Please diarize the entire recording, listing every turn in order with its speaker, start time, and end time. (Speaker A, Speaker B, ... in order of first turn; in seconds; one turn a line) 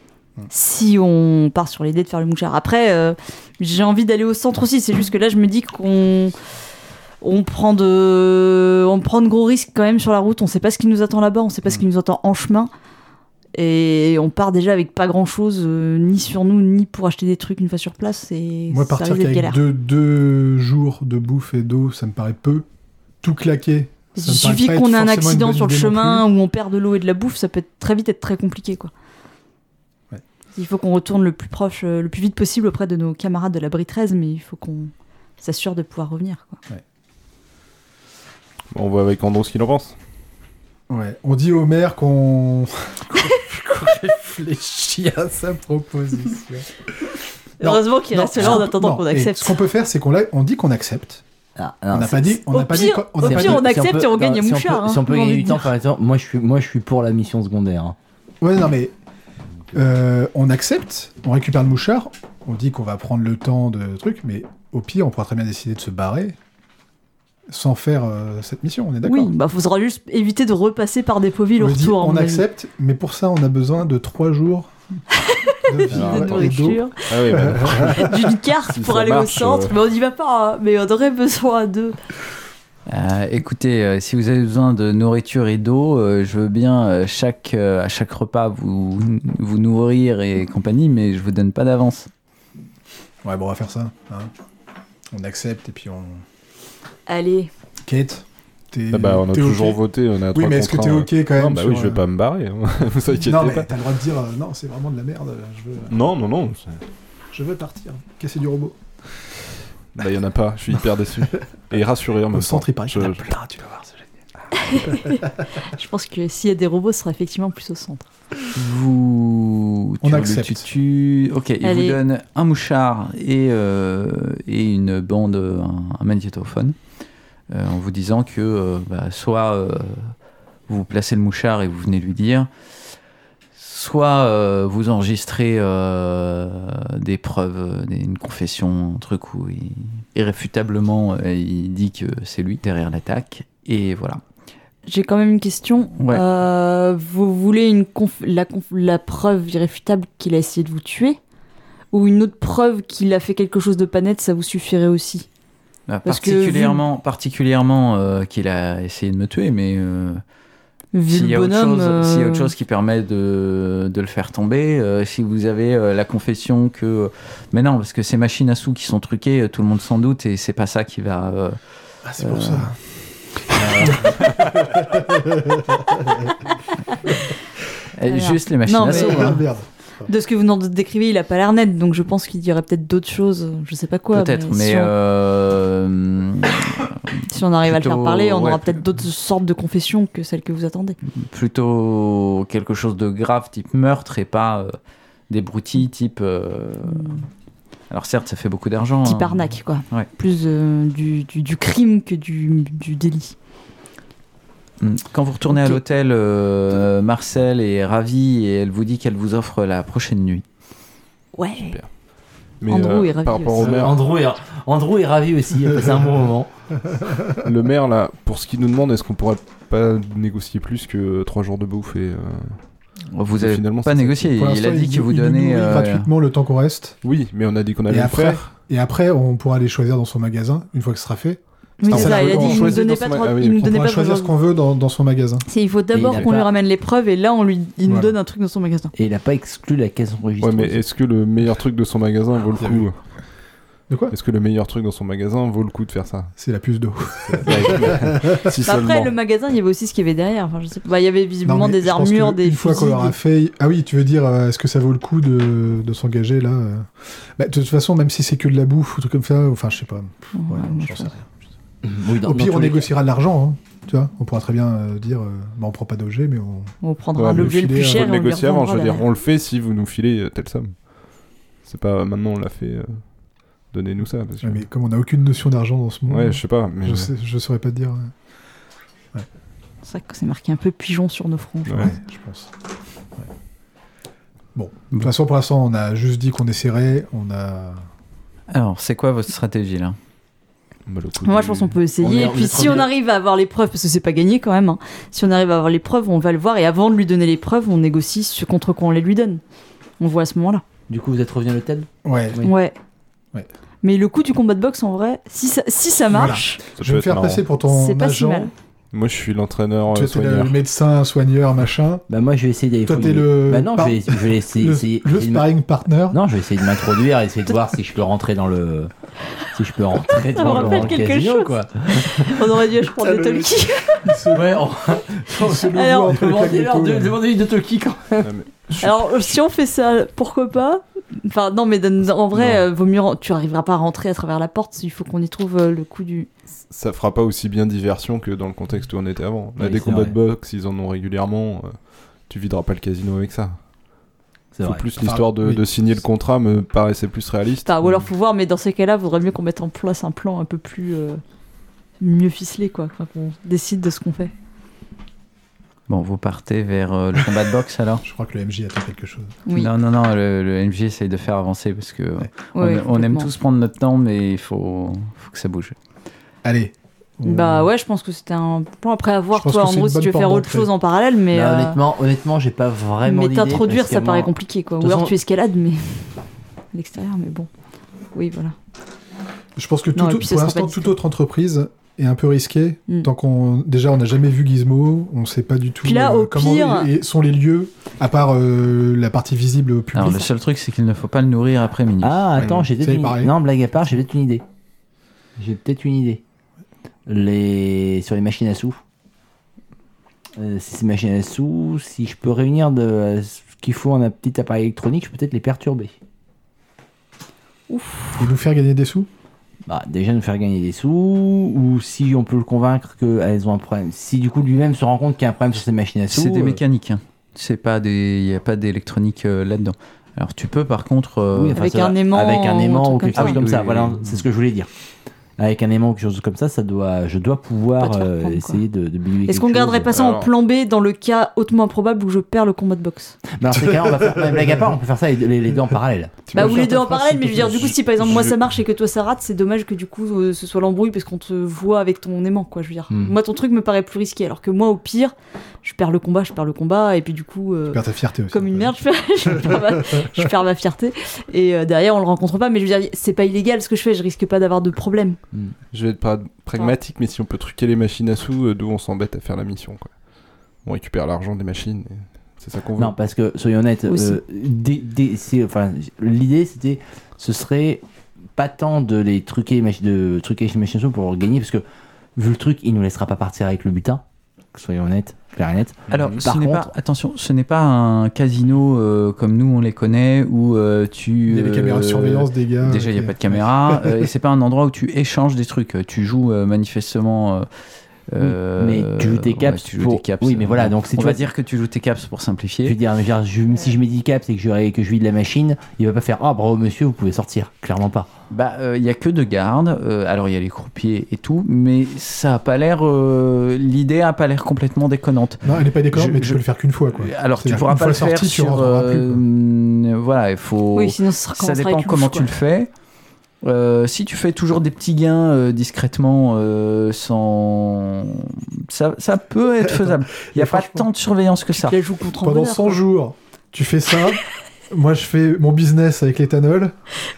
Speaker A: 0.5-6.3
Speaker A: 7.2-12.7
Speaker A: 13.5-19.6
Speaker B: 18.7-22.6
Speaker B: 23.2-26.3
Speaker A: 24.1-28.9
Speaker A: 30.5-36.6
Speaker C: 38.7-40.0
Speaker B: 40.9-46.7
Speaker A: 47.6-49.5
Speaker B: 47.6-51.2
Speaker D: 51.6-52.4
Speaker B: 51.9-53.8
Speaker A: 52.5-55.7
Speaker D: 53.2-58.0
Speaker B: 58.4-58.9
Speaker B: 59.7-66.4
Speaker B: 67.5-69.3
Speaker A: 69.0-72.5
Speaker B: 71.6-74.7
Speaker A: 75.3-77.1
Speaker B: 75.7-78.2
Speaker C: 75.9-76.5
Speaker C: 77.1-78.1
Speaker A: 78.0-82.0
Speaker C: 78.7-79.7
Speaker E: 82.9-92.1
Speaker B: 93.2-94.3
Speaker B: 95.1-96.2
Speaker A: 97.1-97.5
Speaker B: 97.8-99.8
Speaker C: 98.9-103.7
Speaker B: 100.3-102.0
Speaker B: 103.2-105.9
Speaker C: 105.9-106.8
Speaker B: 107.3-108.8
Speaker C: 110.0-113.3
Speaker B: 112.3-114.2
Speaker A: 114.5-118.0
Speaker E: 118.5-126.8
Speaker B: 120.0-120.7
Speaker A: 121.6-122.0
Speaker E: 127.5-130.1
Speaker E: 130.7-132.5
Speaker E: 133.6-144.2
Speaker A: 144.9-151.2
Speaker A: 151.9-155.3
Speaker E: 155.9-160.2
Speaker A: 156.1-156.8
Speaker A: 160.9-162.5
Speaker E: 161.1-171.6
Speaker B: 172.0-172.8
Speaker E: 172.2-172.7
Speaker B: 173.3-176.4
Speaker D: 173.6-174.1
Speaker E: 178.0-179.4
Speaker A: 178.0-179.4
Speaker B: 178.8-180.1
Speaker A: 180.1-184.9
Speaker E: 184.1-188.8
Speaker A: 187.3-191.0
Speaker E: 191.1-194.8
Speaker E: 195.3-197.2
Speaker A: 196.9-197.2
Speaker E: 197.9-200.1
Speaker A: 199.0-203.3
Speaker E: 204.8-210.4
Speaker A: 205.5-205.8
Speaker A: 211.3-211.8
Speaker C: 211.6-211.9
Speaker C: 212.6-214.0
Speaker A: 212.7-213.7
Speaker D: 213.6-216.5
Speaker B: 216.9-217.4
Speaker C: 217.4-222.6
Speaker E: 223.1-226.1
Speaker C: 223.3-224.3
Speaker B: 224.3-227.0
Speaker C: 227.0-228.4
Speaker B: 227.9-232.8
Speaker A: 231.8-234.3
Speaker C: 231.9-233.7
Speaker B: 233.6-235.5
Speaker A: 235.5-238.9
Speaker D: 235.9-236.5
Speaker B: 237.8-238.1
Speaker D: 238.9-240.8
Speaker C: 240.4-243.0
Speaker B: 242.6-242.8
Speaker B: 243.9-244.1
Speaker C: 244.1-246.3
Speaker B: 246.4-248.5
Speaker C: 247.2-249.1
Speaker A: 248.6-253.1
Speaker B: 251.4-261.3
Speaker A: 260.3-261.1
Speaker D: 261.8-262.9
Speaker B: 262.2-266.7
Speaker A: 266.8-269.1
Speaker C: 267.2-270.9
Speaker B: 267.3-268.1
Speaker C: 271.6-273.1
Speaker C: 273.6-274.6
Speaker B: 274.4-278.1
Speaker C: 276.1-277.1
Speaker A: 279.8-281.9
Speaker C: 281.7-281.9
Speaker B: 281.7-282.5
Speaker B: 284.5-287.8
Speaker E: 288.5-290.0
Speaker C: 290.9-292.4
Speaker A: 291.2-299.4
Speaker D: 292.0-292.9
Speaker A: 300.0-300.6
Speaker D: 300.9-302.5
Speaker B: 302.0-302.4
Speaker A: 302.4-302.8
Speaker A: 303.8-306.6
Speaker B: 306.1-308.5
Speaker C: 306.2-307.4
Speaker A: 307.6-308.5
Speaker C: 308.9-310.6
Speaker B: 309.9-312.0
Speaker D: 312.1-315.4
Speaker B: 312.8-316.2
Speaker D: 316.1-318.9
Speaker D: 319.5-322.4
Speaker A: 320.1-324.1
Speaker B: 320.5-320.8
Speaker B: 322.9-327.2
Speaker D: 324.3-328.3
Speaker A: 325.7-326.1
Speaker C: 328.2-329.3
Speaker A: 328.8-336.3
Speaker C: 336.7-343.6
Speaker D: 339.6-340.2
Speaker D: 344.5-345.6
Speaker C: 344.6-347.7
Speaker A: 347.6-351.2
Speaker A: 352.0-354.3
Speaker E: 355.9-358.0
Speaker B: 358.0-359.4
Speaker E: 359.6-365.7
Speaker A: 362.5-363.3
Speaker B: 366.4-367.7
Speaker A: 367.2-371.8
Speaker B: 369.3-370.7
Speaker D: 371.3-375.1
Speaker A: 373.0-377.5
Speaker A: 378.1-378.5
Speaker B: 379.6-390.3
Speaker A: 379.9-380.9
Speaker A: 385.8-386.9
Speaker E: 389.9-392.3
Speaker D: 392.0-394.4
Speaker B: 392.4-393.3
Speaker D: 395.4-396.2
Speaker D: 397.1-398.8
Speaker D: 400.4-405.9
Speaker A: 407.7-408.2
Speaker B: 408.2-409.1
Speaker D: 409.6-416.6
Speaker E: 416.1-421.6
Speaker D: 421.3-424.7
Speaker A: 421.5-423.4
Speaker E: 423.1-424.1
Speaker D: 425.4-429.9
Speaker A: 427.8-428.6
Speaker A: 429.2-433.2
Speaker C: 429.9-430.3
Speaker D: 433.3-436.4
Speaker B: 433.6-434.7
Speaker B: 436.3-438.3
Speaker A: 436.3-455.2
Speaker B: 447.7-448.7
Speaker B: 449.2-450.3
Speaker C: 455.7-460.0
Speaker C: 460.6-462.9
Speaker D: 462.8-467.8
Speaker A: 463.9-464.2
Speaker D: 468.4-471.6
Speaker D: 472.1-476.7
Speaker E: 475.9-487.5
Speaker C: 475.9-476.2
Speaker B: 481.3-484.1
Speaker E: 488.1-492.8
Speaker D: 488.2-491.3
Speaker D: 492.6-498.1
Speaker E: 498.3-512.7
Speaker B: 505.4-509.2
Speaker A: 510.8-512.3
Speaker E: 513.4-521.8
Speaker B: 519.6-520.9
Speaker A: 521.6-522.8
Speaker B: 522.2-526.7